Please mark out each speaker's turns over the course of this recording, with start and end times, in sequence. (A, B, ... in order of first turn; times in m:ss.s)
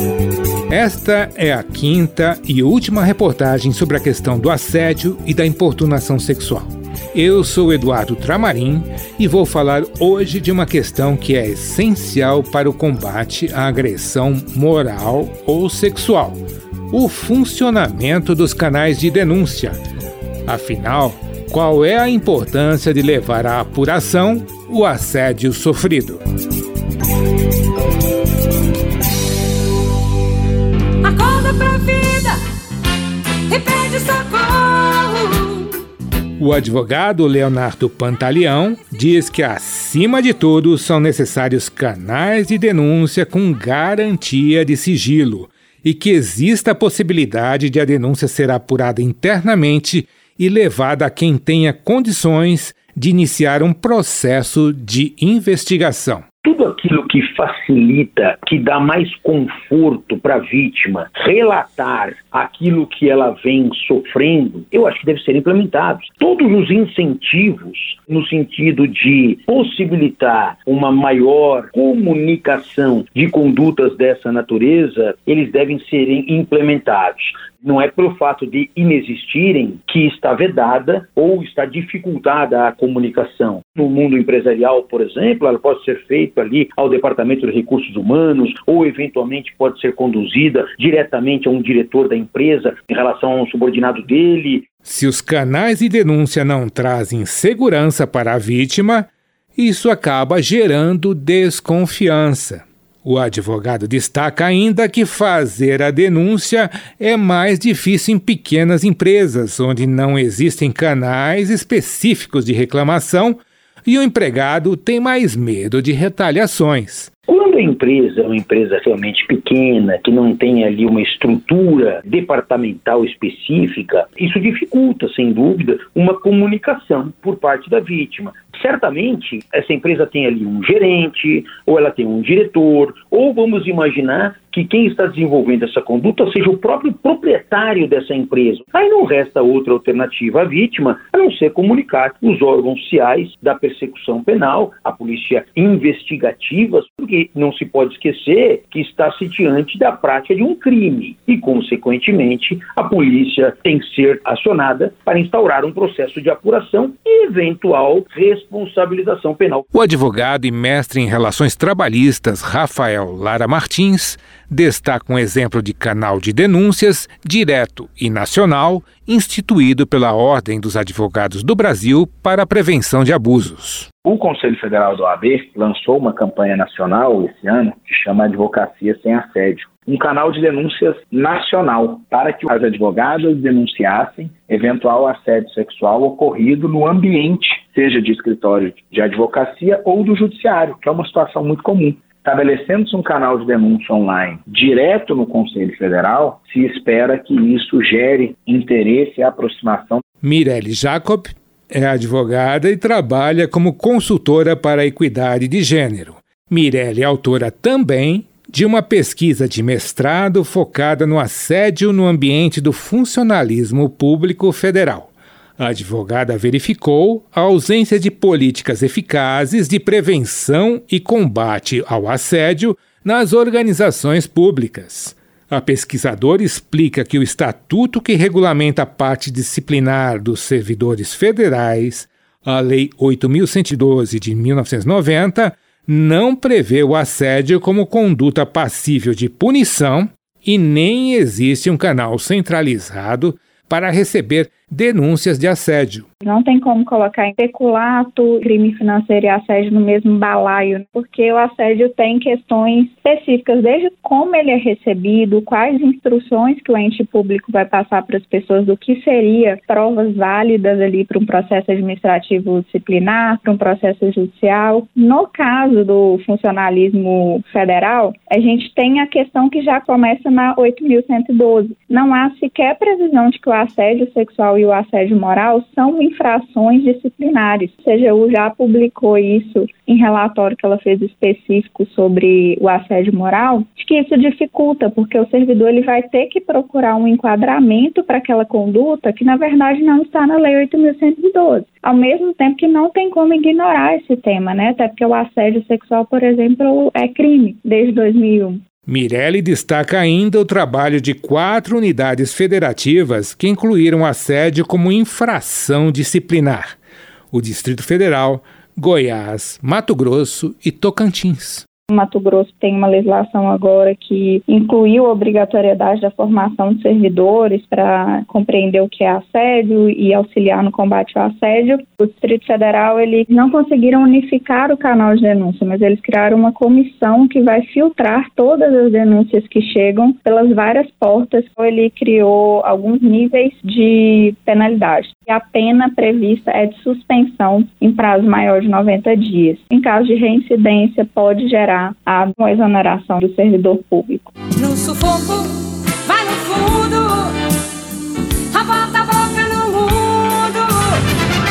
0:00.7-0:16.4 A
0:16.9-0:19.8 A
0:20.5-0:26.2 A
0:31.0-0:32.4 B
0:33.5-0:35.7 B
0:36.4-0:56.2 A
0:56.4-1:34.6 C
1:34.8-1:57.1 A
1:57.3-2:39.6 C
2:39.7-2:53.9 A
2:54.0-3:20.0 D
3:20.2-4:06.0 A
4:06.2-4:58.6 E
4:58.9-5:06.8 A
5:07.3-5:11.6 A
5:11.9-5:44.3 E
5:44.6-5:47.3 B
5:48.5-5:50.9 B